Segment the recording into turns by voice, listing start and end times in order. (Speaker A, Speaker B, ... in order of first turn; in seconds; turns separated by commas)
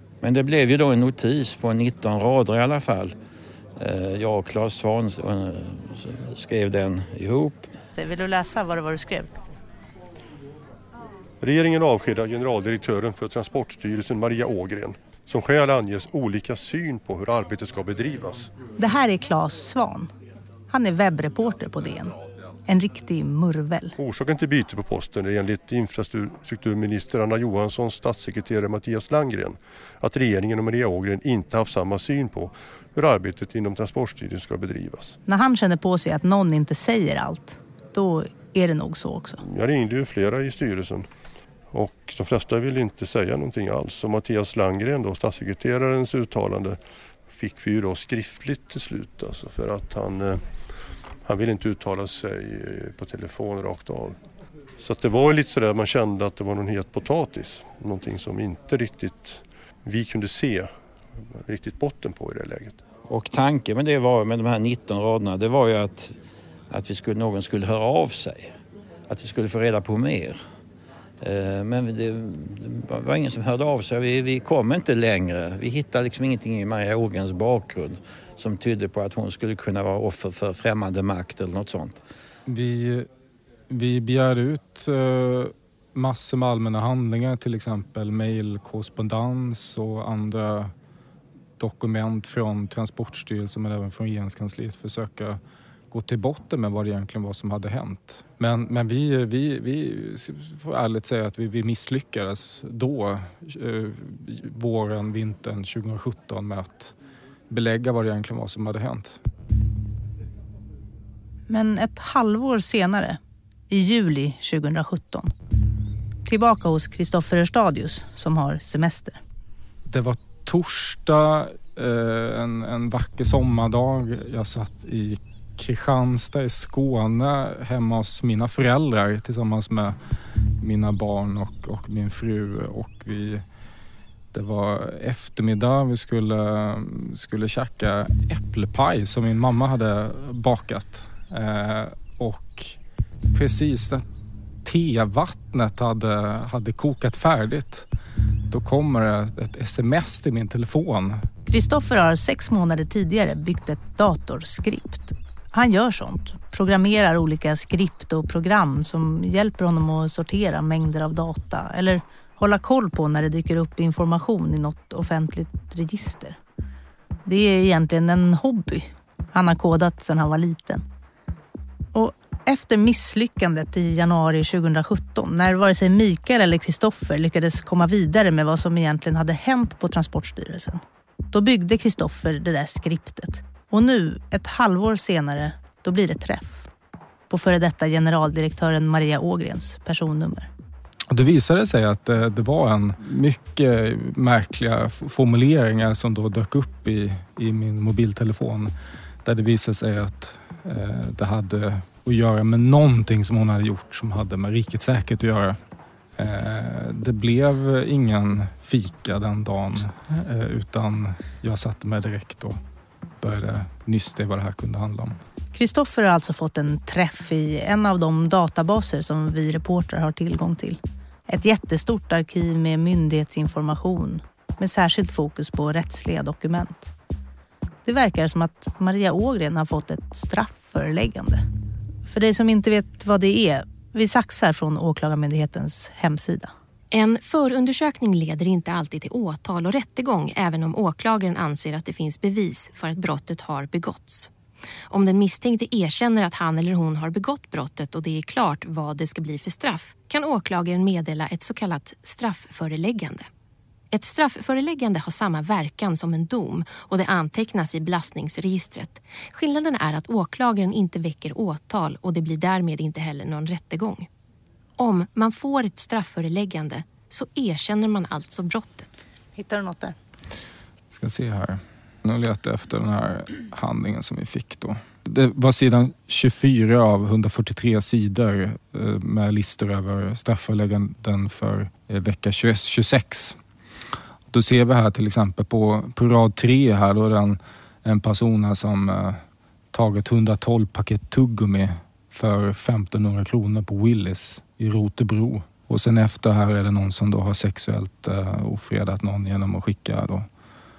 Speaker A: 0.2-3.1, Speaker A: 3.8-7.7, Speaker B: 7.9-9.3, Speaker C: 11.4-18.5, Speaker B: 18.8-20.1, Speaker B: 20.7-22.1, Speaker B: 22.7-23.9, Speaker C: 24.0-35.2, Speaker B: 35.3-39.4, Speaker C: 39.4-41.1, Speaker C: 41.7-50.7, Speaker C: 51.2-54.2, Speaker C: 54.8-60.7, Speaker C: 61.3-62.8, Speaker A: 63.1-66.1, Speaker A: 66.7-68.5, Speaker A: 69.1-70.4, Speaker A: 71.2-82.0, Speaker D: 82.5-83.1, Speaker D: 83.7-90.7, Speaker D: 91.6-95.4, Speaker D: 95.9-106.9, Speaker D: 107.5-109.2, Speaker B: 111.5-115.3, Speaker B: 116.2-119.2, Speaker D: 119.9-129.9, Speaker D: 130.6-133.4, Speaker D: 134.3-142.8, Speaker D: 143.3-144.1, Speaker D: 144.6-147.9, Speaker D: 148.5-151.2, Speaker B: 151.5-166.4, Speaker B: 167.2-170.8, Speaker B: 171.9-180.8, Speaker B: 181.3-186.7, Speaker B: 187.3-190.5, Speaker D: 191.1-198.7, Speaker D: 199.2-205.6, Speaker D: 206.2-212.6, Speaker D: 213.2-215.2, Speaker B: 215.5-226.9, Speaker B: 227.8-231.4, Speaker B: 232.1-236.5, Speaker E: 236.9-244.3, Speaker E: 244.9-253.3, Speaker E: 253.9-264.1, Speaker E: 264.8-269.0, Speaker B: 269.3-269.9, Speaker D: 270.9-283.4, Speaker D: 284.3-289.2, Speaker D: 289.7-300.3